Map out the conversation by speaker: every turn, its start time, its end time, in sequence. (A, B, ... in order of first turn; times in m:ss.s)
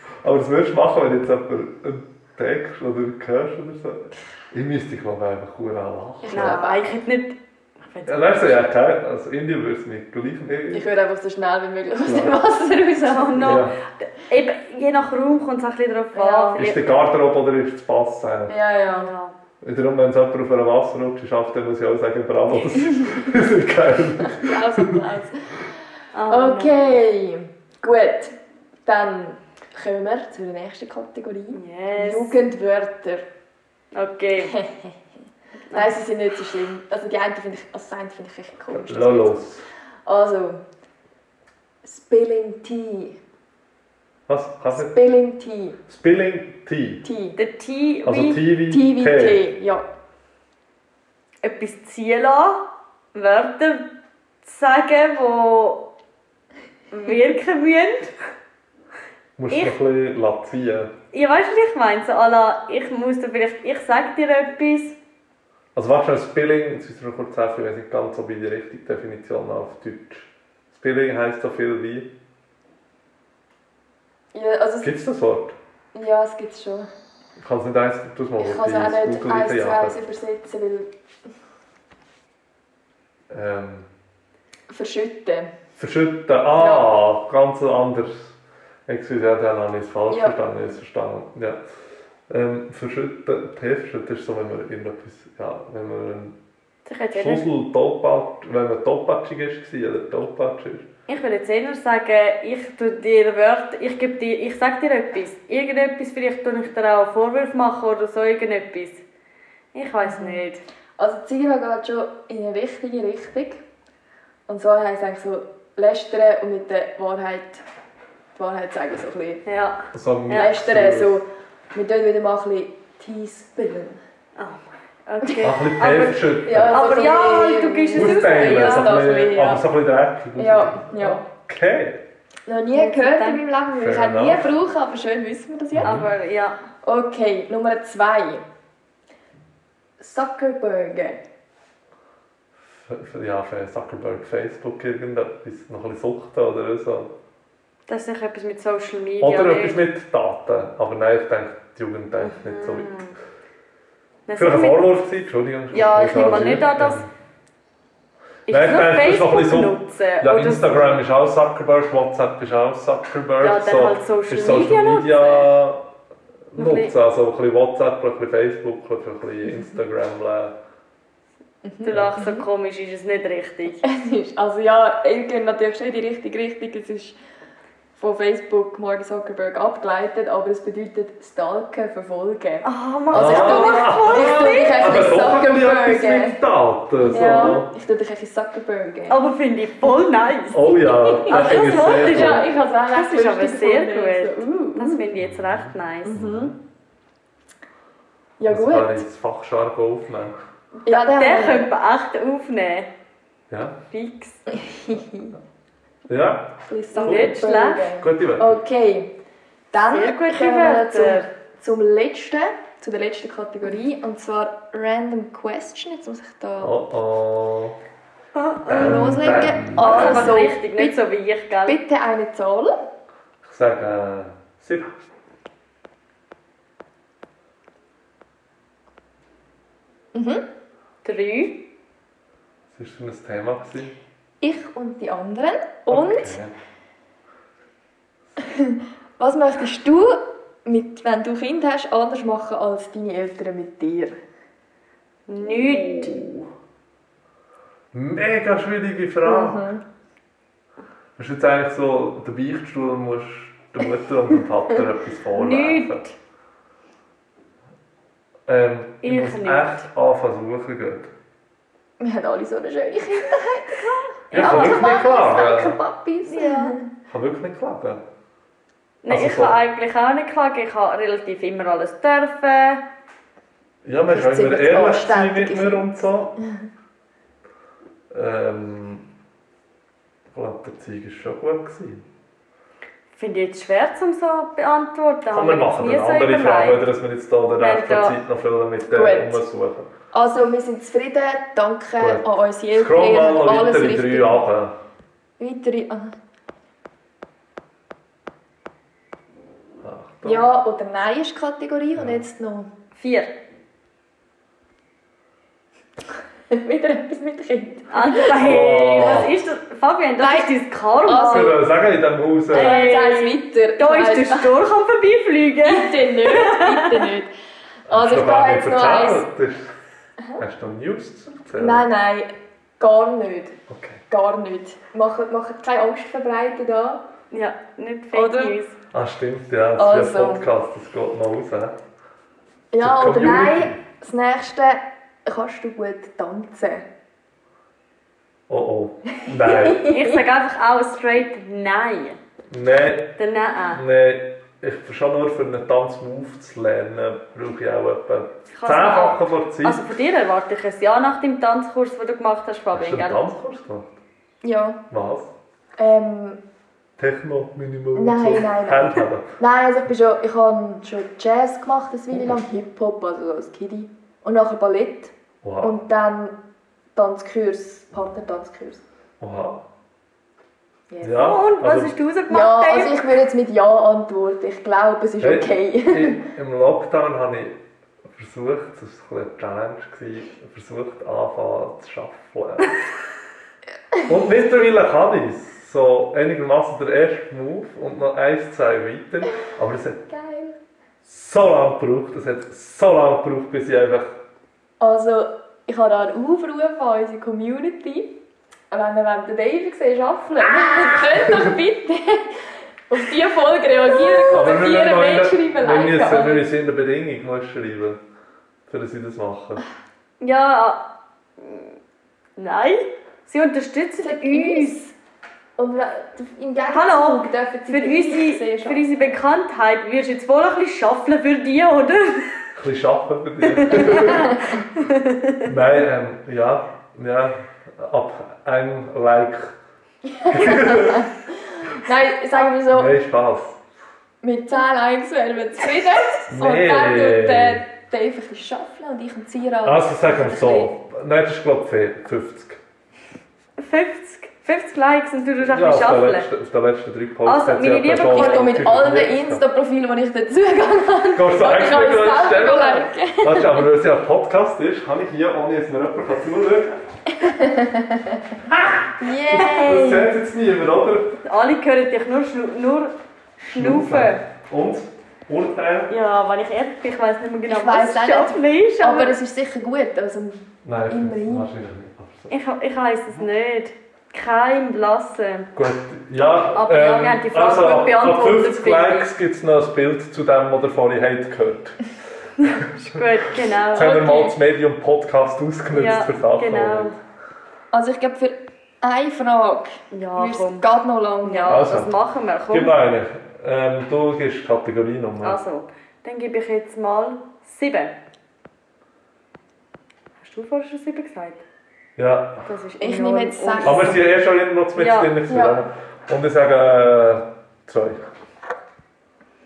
0:00.2-0:06.6 A
0:06.2-0:06.9 B
0:06.3-0:08.6 C
0:08.0-0:10.8 A
0:10.7-0:13.6 B
0:12.0-0:12.4 A
0:13.0-0:16.8 C
0:13.4-0:13.8 A
0:16.1-0:16.6 B
0:16.6-0:18.5 A
0:18.5-0:19.1 B
0:18.8-0:19.3 C
0:19.6-0:25.0 A
0:22.8-0:23.2 B
0:24.2-0:25.6 B
0:26.1-0:26.8 C
0:26.3-0:28.3 B
0:28.8-0:33.2 B
0:31.5-0:32.4 C
0:33.9-0:34.5 C
0:34.4-0:35.0 B
0:35.7-0:39.4 B
0:38.7-0:39.6 A
0:40.0-0:40.6 B
0:41.8-0:43.2 B
0:44.3-0:45.0 A
0:44.7-0:45.8 B
0:45.9-0:47.0 A
0:47.0-0:47.4 B
0:47.4-0:48.4 C
0:48.0-0:49.4 A
0:48.7-0:49.8 B
0:51.4-0:52.6 C
0:53.1-0:53.8 C
0:54.4-0:55.8 C
0:56.9-0:58.1 C
0:59.4-1:00.9 A
1:01.1-1:05.0 C
1:05.7-1:12.1 A
1:14.3-1:14.9 B
1:14.8-1:15.5 A
1:15.9-1:16.9 B
1:17.4-1:20.0 A
1:18.4-1:20.9 B
1:23.3-1:23.9 A
1:24.7-1:25.5 B
1:25.8-1:28.4 A
1:26.6-1:27.0 B
1:28.9-1:31.6 A
1:30.1-1:30.4 B
1:32.3-1:36.4 A
1:36.8-1:37.4 C
1:37.2-1:40.9 A
1:41.1-1:49.0 C
1:49.7-1:50.6 C
1:50.0-1:50.4 B
1:51.0-1:53.6 B
1:54.5-1:57.6 B
1:58.4-1:59.4 B
1:59.4-2:00.5 C
1:59.9-2:01.2 A
2:00.3-2:04.0 B
2:04.4-2:09.0 C
2:05.4-2:07.0 A
2:06.4-2:09.6 B
2:07.9-2:12.0 A
2:10.4-2:11.2 B
2:12.5-2:16.0 B
2:12.7-2:13.4 C
2:13.8-2:14.5 A
2:15.7-2:16.1 A
2:15.8-2:16.6 C
2:16.8-2:18.4 B
2:20.0-2:21.2 B
2:22.7-2:27.1 A
2:27.9-2:29.8 C
2:29.2-2:32.9 A
2:32.2-2:33.1 C
2:34.3-2:34.9 C
2:34.4-2:37.1 A
2:35.7-2:37.0 C
2:38.5-2:41.0 C
2:38.5-2:45.8 A
2:43.4-2:45.5 C
2:46.5-2:50.5 A
2:46.6-2:46.9 C
2:51.6-2:52.4 B
2:51.8-2:53.8 C
2:53.8-2:57.2 B
2:58.0-3:06.4 B
3:02.6-3:05.0 C
3:03.1-3:07.7 A
3:07.0-3:07.6 C
3:07.1-3:09.2 B
3:09.1-3:10.7 C
3:10.5-3:12.5 A
3:10.8-3:15.0 B
3:11.3-3:16.2 C
3:15.2-3:16.6 A
3:16.0-3:16.5 B
3:18.4-3:19.0 B
3:18.5-3:20.4 A
3:20.8-3:22.9 C
3:20.8-3:21.7 B
3:23.5-3:23.8 A
3:23.9-3:24.4 C
3:24.5-3:25.3 B
3:26.1-3:27.4 A
3:26.6-3:29.1 B
3:26.9-3:27.9 C
3:28.0-3:28.6 A
3:29.7-3:36.8 B
3:29.9-3:31.3 C
3:36.6-3:37.8 A
3:38.3-3:39.1 C
3:38.7-3:40.4 A
3:38.7-3:41.0 B
3:39.7-3:41.8 C
3:41.6-3:42.7 B
3:43.4-3:45.0 A
3:50.1-3:50.4 B
3:51.0-3:51.6 C
3:52.7-3:54.0 A
3:54.4-3:56.4 B
3:55.9-3:56.5 A
3:58.4-4:04.2 B
4:05.3-4:06.2 C
4:05.4-4:06.4 B
4:07.9-4:09.7 A
4:09.2-4:09.8 B
4:11.2-4:16.0 A
4:15.4-4:16.1 C
4:18.5-4:21.1 A
4:19.0-4:19.8 C
4:22.0-4:23.8 B
4:23.7-4:25.0 C
4:24.3-4:25.8 A
4:24.3-4:26.9 B
4:26.2-4:26.7 C
4:27.1-4:28.0 A
4:29.0-4:32.8 C
4:29.1-4:29.6 A
4:33.8-4:36.3 A
4:34.1-4:36.5 B
4:38.1-4:39.1 A
4:40.3-4:42.0 A
4:43.2-4:46.8 C
4:45.3-4:49.9 A
4:47.6-4:48.2 C
4:48.9-4:49.4 B
4:50.1-4:54.4 B
4:52.0-4:54.7 A
4:55.4-4:56.1 B
4:59.8-5:00.4 A
5:00.2-5:02.7 B
5:02.0-5:02.2 A
5:03.0-5:03.3 C
5:06.5-5:08.4 B
5:07.9-5:11.6 C
5:08.4-5:09.3 A
5:10.2-5:10.5 B
5:11.0-5:11.6 B
5:11.3-5:12.9 A
5:12.5-5:14.5 B
5:12.5-5:17.1 C
5:15.6-5:17.3 B
5:17.9-5:19.7 A
5:17.9-5:19.2 B
5:20.4-5:21.9 A
5:21.6-5:23.6 B
5:23.7-5:24.0 A
5:24.1-5:27.0 B
5:27.3-5:28.8 C
5:28.1-5:28.6 B
5:28.9-5:31.8 A
5:29.8-5:30.5 B
5:32.7-5:36.8 B
5:32.8-5:33.8 A
5:38.5-5:39.8 A
5:39.2-5:40.2 B
5:39.8-5:42.2 C
5:42.5-5:43.1 A
5:43.2-5:43.8 C
5:43.7-5:49.8 A
5:48.5-5:53.2 C
5:52.7-5:54.0 A
5:54.4-5:54.8 B
5:54.9-5:55.3 A
5:55.8-5:56.4 B
5:57.0-5:59.3 A
5:57.9-6:06.4 B
6:02.1-6:02.4 A
6:05.4-6:05.7 A
6:06.9-6:08.8 B
6:09.2-6:09.6 A
6:10.9-6:11.2 B
6:11.0-6:11.9 A
6:11.1-6:13.0 C
6:12.3-6:16.2 B
6:15.2-6:17.6 A
6:18.1-6:22.7 A
6:24.0-6:30.0 A
6:30.1-6:30.6 B
6:31.0-6:34.1 A
6:34.8-6:38.2 B
6:38.7-6:46.5 B
6:40.4-6:41.5 A
6:43.9-6:44.5 C
6:44.3-6:48.0 A
6:48.7-6:49.6 A
6:50.2-6:50.8 C
6:51.4-6:51.7 C
6:52.4-6:54.8 C
6:54.0-6:54.9 B
6:55.6-6:58.8 B
6:56.7-7:02.4 C
7:02.5-7:04.6 A
7:03.5-7:05.5 C
7:04.0-7:04.5 B
7:05.4-7:09.5 A
7:10.1-7:12.9 B
7:10.3-7:11.1 A
7:12.7-7:13.6 A
7:14.2-7:20.7 B
7:16.3-7:17.6 A
7:19.6-7:22.6 A
7:23.6-7:26.2 C
7:25.4-7:29.4 A
7:27.2-7:28.5 C
7:28.0-7:33.6 B
7:31.1-7:36.8 A
7:37.1-7:38.4 B
7:38.5-7:41.2 A
7:39.0-7:40.1 B
7:41.2-7:44.2 C
7:43.5-7:45.9 A
7:45.9-7:49.1 C
7:47.5-7:51.5 B
7:50.6-7:52.3 A
7:52.3-7:55.5 C
7:55.5-8:01.8 A
7:56.5-7:59.1 C
8:02.4-8:04.4 C
8:02.4-8:03.0 A
8:03.7-8:06.9 A
8:05.7-8:07.0 C
8:07.7-8:11.7 B
8:09.9-8:10.6 C
8:11.2-8:12.7 C
8:11.5-8:11.9 A
8:12.5-8:15.4 A
8:15.2-8:17.9 C
8:20.2-8:21.4 C
8:22.0-8:22.4 A
8:22.4-8:24.0 C
8:22.8-8:24.0 B
8:23.6-8:28.1 A
8:24.8-8:25.1 C
8:25.3-8:25.6 B